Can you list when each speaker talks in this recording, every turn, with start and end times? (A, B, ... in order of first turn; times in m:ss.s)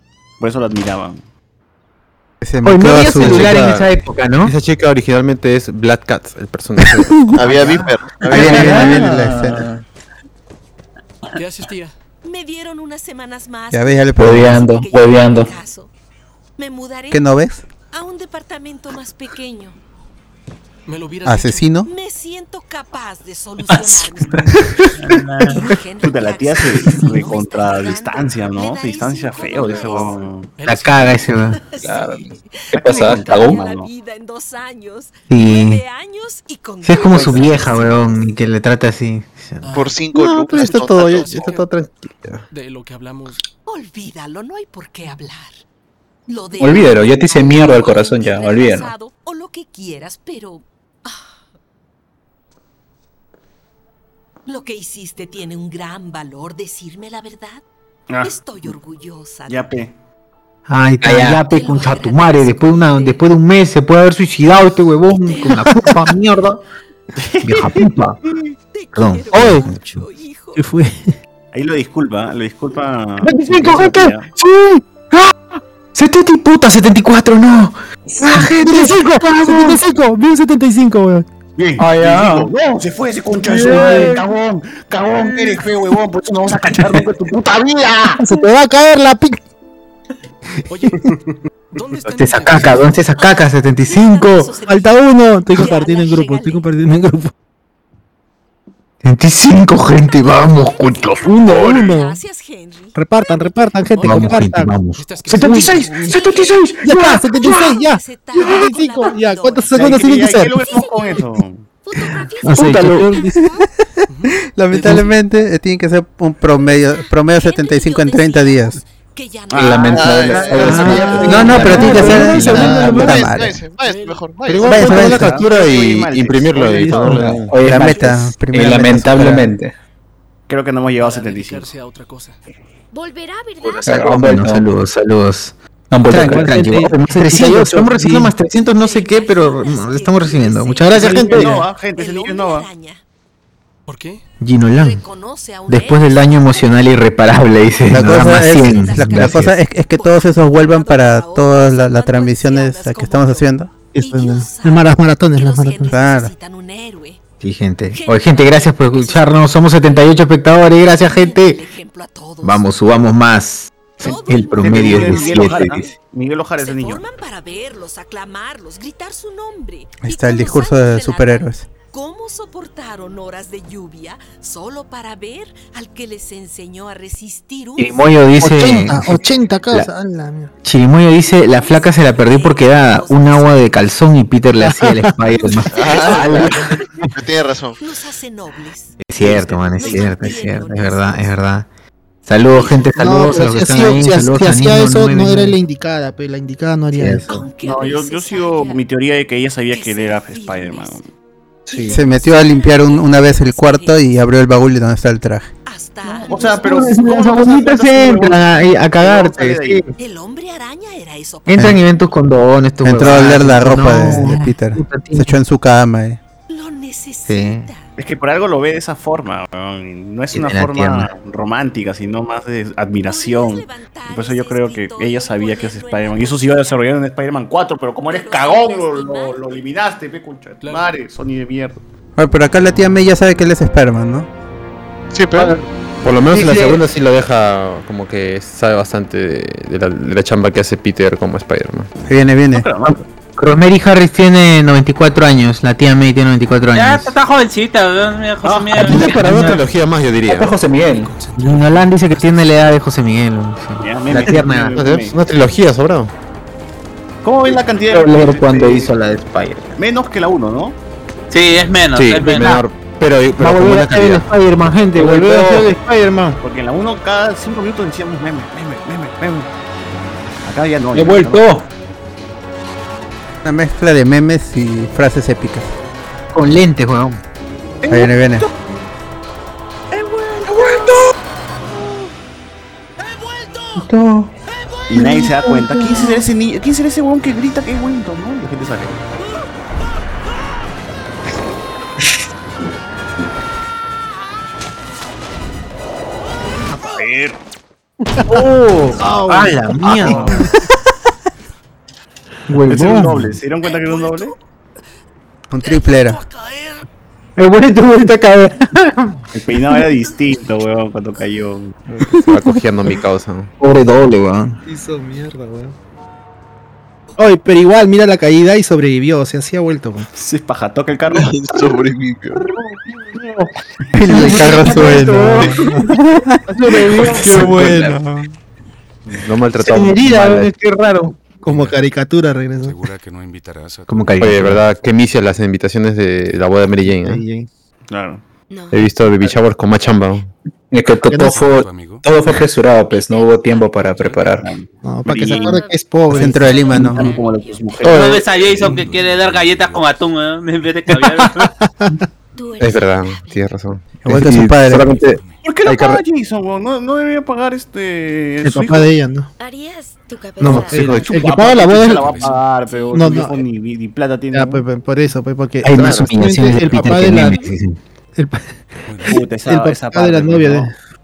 0:00.4-0:01.2 A
0:02.4-0:03.7 B
0:02.6-0:04.5 C
0:02.8-0:03.9 D
0:04.4-0:07.8 D
0:07.4-0:09.0 E
0:08.3-0:09.7 B
0:08.3-0:09.2 C
0:08.4-0:09.8 F
0:11.3-0:12.0 G
0:12.2-0:15.9 H
0:13.7-0:14.6 B
0:14.2-0:15.5 F
0:16.6-0:17.4 H
0:17.1-0:17.6 B
0:17.9-0:19.8 H
0:20.9-0:21.7 G
0:21.3-0:21.9 B
0:21.9-0:30.2 H
0:23.8-0:24.1 F
0:25.0-0:25.6 I
0:26.0-0:30.5 A
0:30.6-0:31.4 G
0:30.6-0:31.6 C
0:31.6-0:38.3 H
0:31.8-0:33.6 F
0:32.9-0:33.9 A
0:35.3-0:35.8 C
0:36.8-0:39.6 C
0:39.6-0:40.0 G
0:39.7-0:41.4 E
0:40.2-0:42.4 D
0:40.6-0:41.7 G
0:42.5-0:43.4 G
0:43.7-0:45.6 H
0:46.3-0:51.3 H
0:46.6-0:48.9 F
0:54.5-0:57.6 H
0:58.1-0:58.6 A
0:58.2-0:59.8 H
0:59.5-0:59.9 A
1:00.7-1:06.6 C
1:01.0-1:01.4 F
1:01.3-1:03.3 H
1:05.1-1:05.9 H
1:07.4-1:08.2 C
1:07.4-1:07.8 A
1:08.7-1:10.7 H
1:09.0-1:09.7 C
1:09.0-1:10.0 D
1:10.6-1:11.1 J
1:11.5-1:14.3 A
1:13.2-1:15.4 C
1:15.9-1:19.8 C
1:18.2-1:21.3 J
1:21.6-1:24.4 A
1:21.8-1:22.5 C
1:23.5-1:24.2 C
1:23.6-1:24.2 J
1:25.0-1:25.5 A
1:25.0-1:25.6 C
1:25.2-1:25.6 J
1:26.3-1:27.5 A
1:27.6-1:28.1 C
1:28.1-1:29.4 J
1:30.7-1:31.1 G
1:31.8-1:33.0 G
1:32.2-1:34.6 C
1:33.0-1:36.7 H
1:34.7-1:37.3 J
1:39.0-1:41.4 C
1:40.4-1:43.6 H
1:41.2-1:42.2 J
1:43.0-1:44.7 J
1:44.0-1:47.6 C
1:44.9-1:46.3 G
1:45.3-1:46.2 J
1:45.7-1:51.3 H
1:46.8-1:50.6 J
1:49.7-1:51.7 A
1:51.8-1:53.6 H
1:52.5-1:53.4 J
1:52.5-1:53.0 C
1:54.1-1:55.1 G
1:54.5-1:58.8 B
1:57.3-1:58.7 K
1:57.8-1:58.5 H
1:59.1-2:01.7 H
1:59.5-1:59.9 A
1:59.5-2:03.2 F
1:59.9-2:01.6 E
2:00.6-2:01.1 C
2:00.6-2:03.4 J
2:00.7-2:03.6 B
2:01.6-2:02.4 C
2:02.2-2:04.7 E
2:03.8-2:04.3 G
2:04.5-2:05.3 J
2:04.7-2:05.4 B
2:04.7-2:07.2 A
2:05.2-2:07.5 D
2:06.8-2:07.2 J
2:07.2-2:09.7 F
2:07.6-2:09.5 B
2:07.8-2:08.2 G
2:10.5-2:11.7 A
2:11.0-2:12.4 G
2:12.9-2:14.3 K
2:13.8-2:14.7 F
2:13.9-2:21.6 C
2:15.9-2:17.0 F
2:16.1-2:18.3 J
2:18.2-2:23.0 H
2:20.8-2:21.6 J
2:21.0-2:22.7 A
2:23.9-2:24.2 G
2:24.4-2:25.0 C
2:24.7-2:26.8 H
2:25.7-2:29.5 C
2:27.7-2:37.2 H
2:27.9-2:33.7 B
2:34.0-2:35.9 J
2:35.9-2:36.3 B
2:37.4-2:41.6 C
2:37.9-2:40.2 H
2:40.8-2:42.7 H
2:42.4-2:45.9 C
2:44.0-2:45.9 H
2:44.6-2:47.0 A
2:46.6-2:59.5 H
2:50.0-2:51.7 B
2:57.8-2:59.2 C
2:58.4-3:00.5 J
3:00.6-3:07.1 C
3:01.2-3:04.0 H
3:04.6-3:05.1 J
3:05.7-3:06.6 E
3:07.1-3:07.8 E
3:07.8-3:11.4 H
3:09.0-3:11.7 C
3:09.1-3:10.4 A
3:12.3-3:15.6 C
3:13.0-3:17.4 J
3:17.0-3:17.3 C
3:17.4-3:18.9 H
3:17.6-3:21.1 A
3:19.7-3:21.0 H
3:21.7-3:24.1 H
3:21.9-3:25.5 B
3:25.7-3:27.2 H
3:26.3-3:29.9 A
3:26.6-3:29.9 C
3:30.0-3:32.1 H
3:31.5-3:35.2 C
3:32.8-3:36.2 B
3:33.0-3:33.5 H
3:33.8-3:35.3 J
3:36.5-3:37.9 H
3:37.3-3:37.7 C
3:38.0-3:51.8 A
3:40.3-3:41.1 C
3:43.0-3:46.9 H
3:48.0-3:49.4 H
3:50.6-3:51.0 G
3:52.2-3:54.3 B
3:55.1-3:55.6 E
3:56.0-4:01.9 D
3:56.3-3:56.8 C
4:02.1-4:02.7 B
4:02.5-4:03.0 A
4:03.4-4:07.1 C
4:06.7-4:09.1 I
4:08.4-4:08.8 A
4:08.7-4:09.6 C
4:08.8-4:10.6 D
4:10.3-4:11.1 F
4:10.6-4:12.7 G
4:11.4-4:14.8 C
4:13.8-4:15.2 A
4:14.7-4:16.1 D
4:17.2-4:19.0 A
4:17.9-4:19.7 C
4:18.1-4:18.8 F
4:19.8-4:20.8 A
4:21.3-4:22.6 I
4:21.9-4:24.3 D
4:22.2-4:22.6 C
4:23.4-4:26.4 C
4:25.0-4:25.8 F
4:26.4-4:29.5 A
4:30.4-4:31.6 A
4:31.0-4:31.6 F
4:33.4-4:35.7 B
4:36.3-4:37.2 C
4:37.8-4:38.3 A
4:37.9-4:38.5 B
4:43.9-4:44.3 C
4:44.9-4:49.0 A
4:45.0-4:45.9 C
4:56.7-4:57.4 A
4:58.2-5:00.5 J
4:58.2-5:00.5 C
5:00.0-5:00.4 A
5:02.5-5:03.2 J
5:02.5-5:03.3 C
5:02.6-5:04.4 A
5:03.6-5:04.3 H
5:05.5-5:06.2 B
5:05.6-5:06.8 H
5:07.4-5:09.2 C
5:09.3-5:11.8 A
5:11.9-5:12.2 J
5:12.2-5:13.5 D
5:13.6-5:14.6 C
5:14.7-5:15.8 J
5:17.2-5:20.1 J
5:20.1-5:21.3 A
5:21.1-5:22.4 E
5:24.0-5:26.3 B
5:24.0-5:25.6 C
5:24.1-5:25.8 J
5:26.5-5:27.9 J
5:27.2-5:28.2 B
5:27.3-5:28.0 F
5:29.1-5:30.5 D
5:29.7-5:32.9 J
5:31.5-5:31.8 L
5:32.6-5:34.2 L
5:33.9-5:34.6 C
5:34.2-5:37.2 D
5:36.9-5:37.5 J
5:37.9-5:38.2 A
5:38.5-5:39.1 K
5:38.7-5:40.3 D
5:40.7-5:44.5 F
5:41.0-5:41.5 J
5:41.2-5:42.1 L
5:42.9-5:43.7 K
5:44.0-5:45.6 A
5:44.8-5:47.0 J
5:45.2-5:48.1 K
5:46.2-5:47.0 B
5:46.6-5:48.0 A
5:47.8-5:48.3 D
5:47.9-5:51.5 I
5:48.3-5:49.9 L
5:50.9-5:52.0 J
5:52.4-5:53.4 K
5:52.6-5:56.0 D
5:54.0-5:55.0 B
5:55.0-5:55.4 L
5:55.4-5:58.9 A
5:58.4-5:59.3 J
5:59.4-6:01.1 K
6:00.4-6:01.3 D
6:00.5-6:02.3 J
6:01.0-6:04.6 A
6:01.4-6:02.4 L
6:02.7-6:03.0 K
6:02.9-6:03.4 J
6:04.3-6:07.5 J
6:05.6-6:07.8 C
6:08.2-6:10.7 J
6:08.9-6:09.1 L
6:09.1-6:10.7 A